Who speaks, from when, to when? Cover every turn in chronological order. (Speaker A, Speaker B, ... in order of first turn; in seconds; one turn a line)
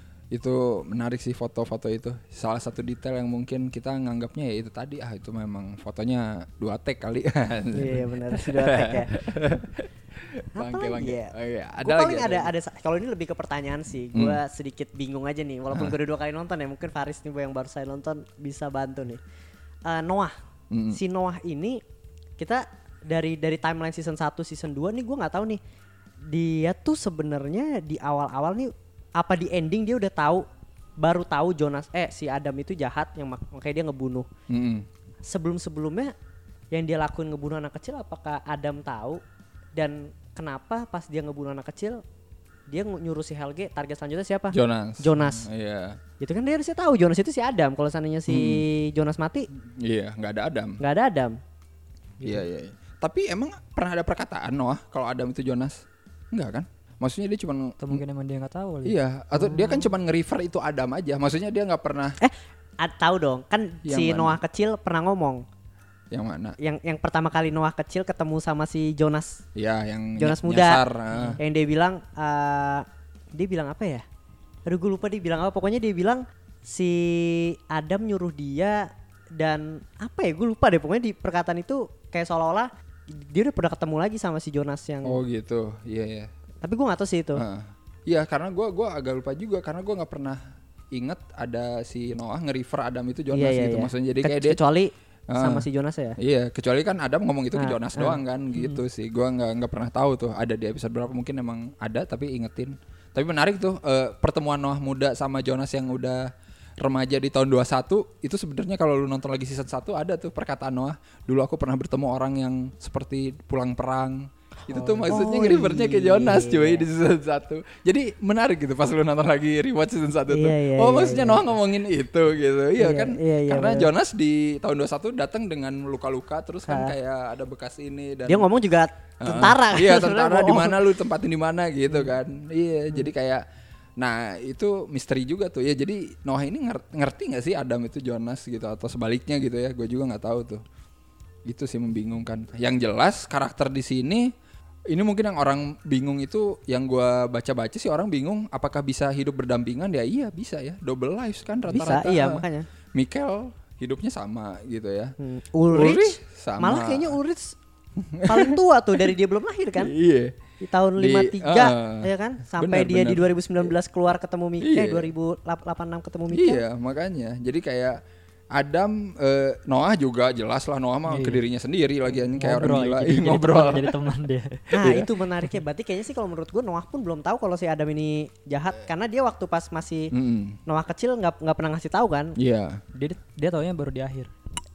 Speaker A: 0.3-12.5
Speaker B: 7.7-9.2
Speaker B: 10.6-19.2
Speaker A: 14.1-14.4
Speaker B: 19.8-20.4
Speaker A: 20.7-21.0
Speaker B: 20.9-21.8
Speaker B: 22.4-25.6
Speaker B: 26.2-30.4
Speaker B: 31.0-34.3
Speaker A: 34.5-34.9
Speaker B: 35.2-36.1
Speaker B: 36.7-39.2
Speaker B: 39.8-42.0
Speaker B: 42.7-45.5
Speaker A: 44.5-46.0
Speaker B: 46.2-49.5
Speaker A: 48.3-48.6
Speaker A: 49.5-50.8
Speaker B: 50.8-51.4
Speaker A: 52.2-58.0
Speaker C: 57.8-59.0
Speaker A: 58.8-62.1
Speaker B: 62.2-65.4
Speaker A: 63.8-64.4
Speaker A: 66.1-66.6
Speaker B: 66.6-69.4
Speaker A: 69.5-71.4
Speaker B: 70.2-70.8
Speaker C: 71.1-71.4
Speaker B: 71.4-74.0
Speaker B: 74.7-85.2
Speaker A: 85.0-86.3
Speaker B: 86.6-87.4
Speaker A: 87.3-94.6
Speaker B: 93.3-96.2
Speaker A: 95.3-95.6
Speaker A: 96.2-106.2
Speaker B: 97.5-98.2
Speaker A: 106.8-128.5
Speaker C: 114.7-115.0
Speaker B: 115.0-116.8
Speaker B: 120.3-121.4
Speaker B: 122.8-123.9
Speaker B: 126.7-126.9
Speaker B: 128.3-130.8
Speaker A: 129.2-133.4
Speaker A: 134.0-140.6
Speaker A: 141.4-144.3
Speaker A: 144.9-152.4
Speaker B: 151.7-152.7
Speaker A: 152.9-155.1
Speaker B: 155.2-157.6
Speaker A: 155.7-157.2
Speaker A: 158.0-158.6
Speaker B: 158.2-159.9
Speaker A: 159.8-160.4
Speaker B: 160.6-166.6
Speaker A: 160.9-163.7
Speaker A: 164.6-165.1
Speaker A: 166.3-168.0
Speaker A: 168.5-174.1
Speaker C: 171.1-171.4
Speaker C: 172.3-174.7
Speaker B: 174.7-180.1
Speaker A: 174.8-175.1
Speaker A: 180.1-180.6
Speaker B: 180.7-182.3
Speaker A: 182.3-182.8
Speaker C: 182.9-184.3